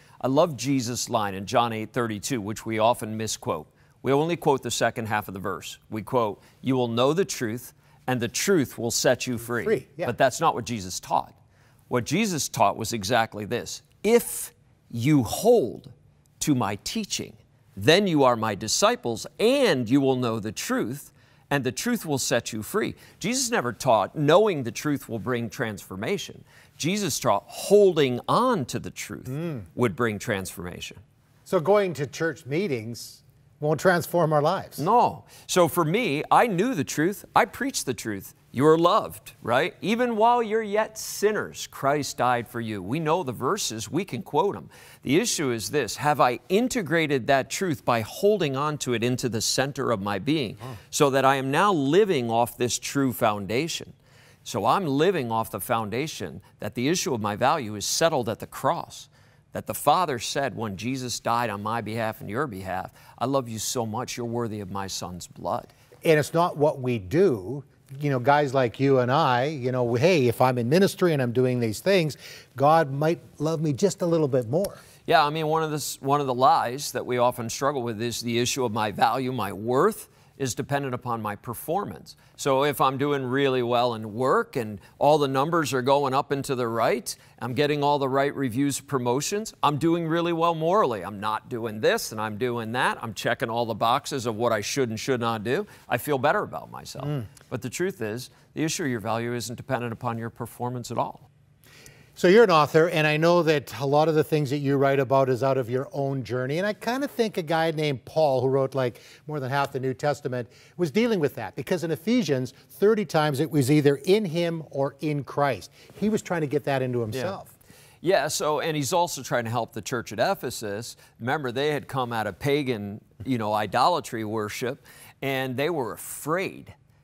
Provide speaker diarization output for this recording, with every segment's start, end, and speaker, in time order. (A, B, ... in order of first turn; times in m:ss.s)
0:00.2-0:11.4 A
0:09.4-0:10.1 B
0:11.9-0:31.0 A
0:29.4-0:29.6 B
0:31.5-0:34.9 B
0:34.8-0:53.9 A
0:54.4-1:05.7 A
1:06.0-1:14.8 B
1:15.1-1:41.3 A
1:42.2-1:57.5 B
1:58.0-2:06.8 A